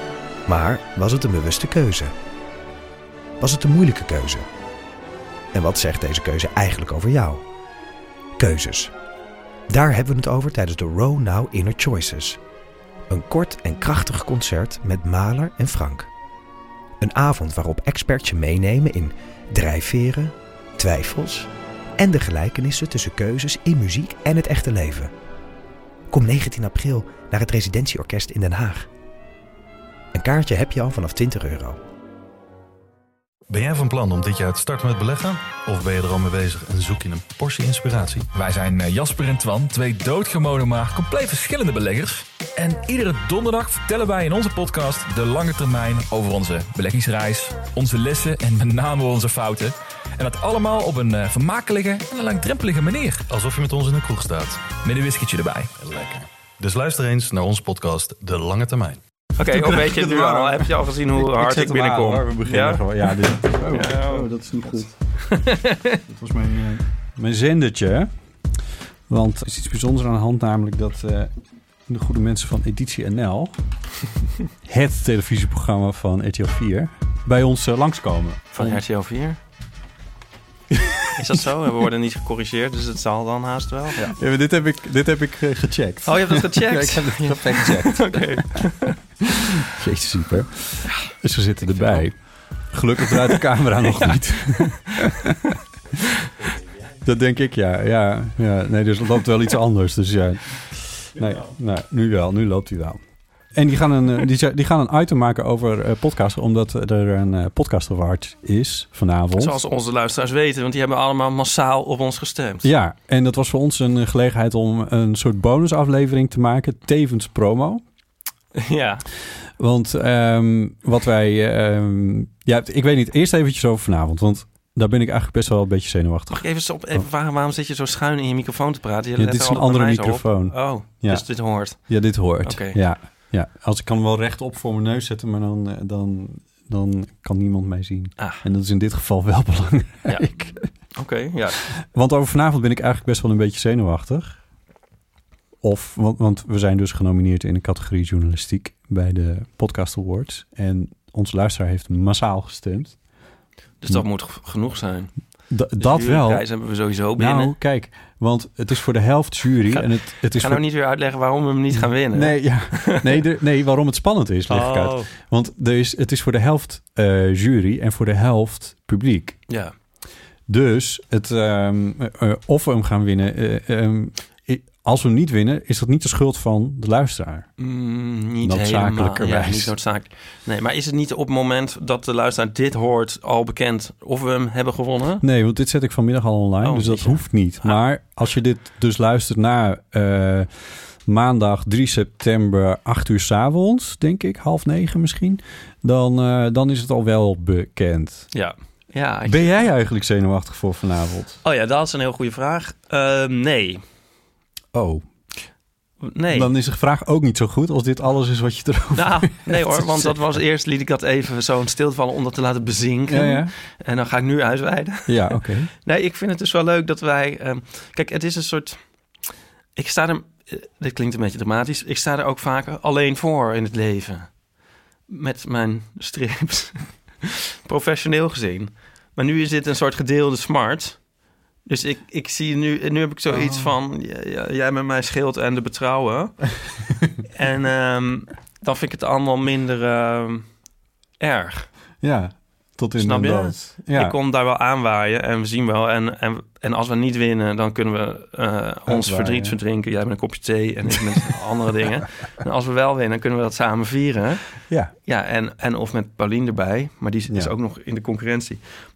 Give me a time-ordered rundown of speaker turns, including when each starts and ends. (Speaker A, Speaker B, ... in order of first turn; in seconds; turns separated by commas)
Speaker A: 0.5-2.1, Speaker A: 3.4-4.4, Speaker A: 5.5-7.4, Speaker A: 8.4-8.9, Speaker A: 9.7-12.4, Speaker A: 13.1-16.1, Speaker A: 17.0-25.1, Speaker A: 26.1-28.9, Speaker A: 30.1-31.8, Speaker B: 33.5-38.3, Speaker C: 38.3-53.3, Speaker B: 53.3-54.6, Speaker C: 54.8-55.7, Speaker B: 55.8-59.0, Speaker D: 59.4-64.3, Speaker E: 59.5-64.9, Speaker D: 65.3-66.0, Speaker E: 66.1-68.1, Speaker E: 69.1-71.3, Speaker E: 71.9-73.5, Speaker E: 74.6-78.8, Speaker D: 78.5-79.4, Speaker E: 80.7-81.4, Speaker D: 81.1-84.2, Speaker E: 84.0-88.3, Speaker D: 86.0-89.0, Speaker E: 89.6-95.4, Speaker D: 91.7-92.0, Speaker E: 97.0-103.0, Speaker E: 103.5-109.6, Speaker D: 109.4-112.7, Speaker E: 112.6-117.8, Speaker D: 118.5-119.0, Speaker E: 119.6-127.0, Speaker D: 126.3-131.8, Speaker E: 129.2-140.7, Speaker D: 132.4-132.8, Speaker D: 140.9-141.6, Speaker E: 141.8-144.4, Speaker E: 145.6-152.9, Speaker D: 153.8-155.1, Speaker E: 155.5-156.5, Speaker D: 155.8-157.6, Speaker E: 157.1-160.6, Speaker D: 159.7-163.2, Speaker E: 162.1-169.4, Speaker D: 164.5-165.1, Speaker D: 169.5-169.7, Speaker E: 170.5-177.5, Speaker D: 177.6-185.2, Speaker E: 178.4-179.7, Speaker E: 185.2-190.5, Speaker D: 186.6-187.8, Speaker E: 191.1-198.3, Speaker D: 198.3-199.7, Speaker E: 199.2-201.4, Speaker D: 201.4-203.8, Speaker E: 204.7-205.0, Speaker D: 206.0-206.5, Speaker E: 206.3-210.1, Speaker D: 208.9-218.8, Speaker E: 213.1-213.5, Speaker E: 215.1-215.7, Speaker D: 219.8-224.3, Speaker D: 225.1-231.0, Speaker D: 231.6-236.5, Speaker E: 233.3-233.7, Speaker D: 237.3-240.5, Speaker D: 241.2-241.7, Speaker E: 242.0-244.2, Speaker D: 243.0-254.5, Speaker E: 248.9-249.6, Speaker D: 255.0-258.6